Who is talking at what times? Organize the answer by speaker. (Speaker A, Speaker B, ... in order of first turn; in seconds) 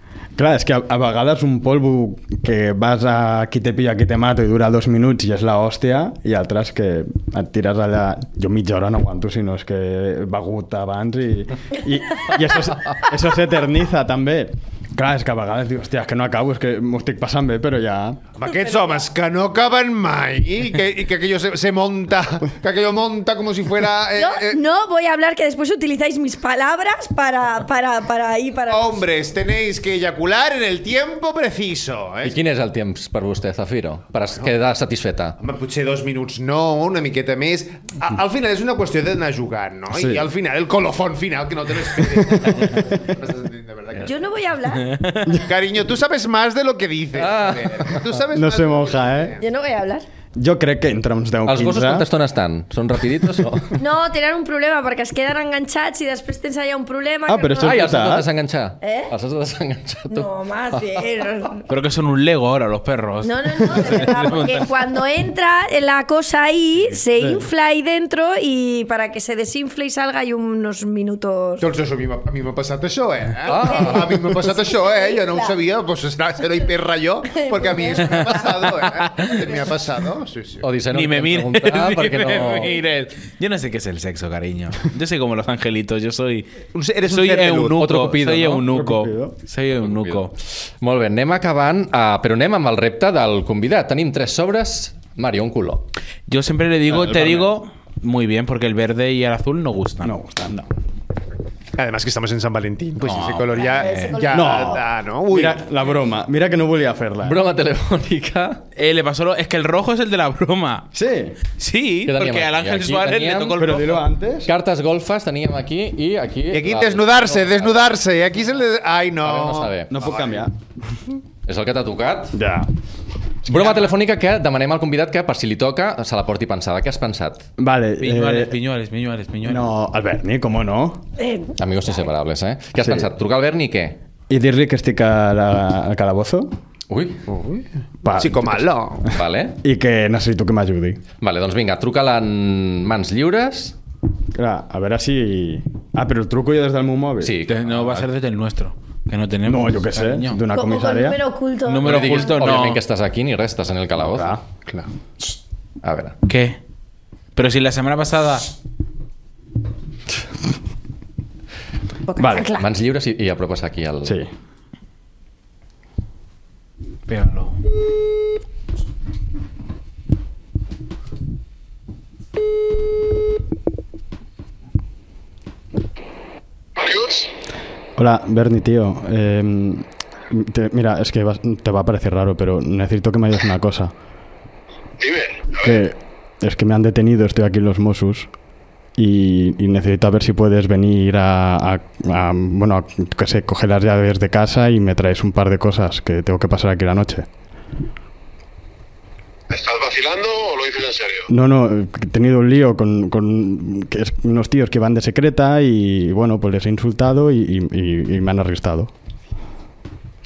Speaker A: 0.4-18.2, 39.9-40.3, 48.3-49.4, 50.4-52.1, 57.3-58.3, 67.2-67.4, 88.7-89.3, 96.9-97.5, 100.0-100.7, 104.3-107.4, 110.9-111.4, 113.6-114.5, 119.9-120.5, 122.3-122.7, 127.6-128.6, 129.5-131.0, 132.8-133.1, 134.3-136.5, 138.0-141.0, 144.3-147.3, 149.4-151.2, 154.0-154.4, 162.2-162.6, 164.0-164.3, 178.0-183.9, 185.6-188.3, 189.0-197.3, 201.3-208.9
Speaker B: 18.4-24.6, 28.7-32.4, 35.4-44.2, 45.3-49.4, 71.6-80.7, 86.7-88.0, 101.8-105.6, 116.5-120.4, 137.3-139.1
Speaker C: 24.2-29.0, 44.0-44.9, 49.4-50.0, 53.8-57.8, 58.8-59.1, 60.1-61.6, 63.2-71.7, 73.7-74.0, 74.5-75.5, 77.3-78.5, 103.5-104.6, 131.2-131.5, 150.5-152.2, 162.1-162.6
Speaker D: 32.2-35.4, 47.2-48.0, 51.5-53.7, 57.6-60.3, 73.5-74.4, 80.6-82.7, 87.8-88.7, 89.8-90.2, 90.8-95.9, 107.2-108.6, 112.1-113.8, 114.5-117.8, 119.2-119.9, 121.5-122.3, 123.5-127.5, 131.6-134.0, 136.9-137.2, 139.1-139.6, 141.2-143.7, 147.2-148.1, 151.8-154.3, 155.8-156.2, 162.6-164.2
Speaker E: 44.8-45.4, 61.7-64.7, 80.9-86.5, 87.0-90.3, 96.3-100.1, 103.0-104.1, 108.8-110.9, 111.6-114.1, 128.0-129.7, 147.5-150.4, 151.6-152.8, 156.3-156.6, 157.3-158.5, 167.1-167.6
Speaker F: 176.8-177.3, 185.0-185.8, 199.5-201.3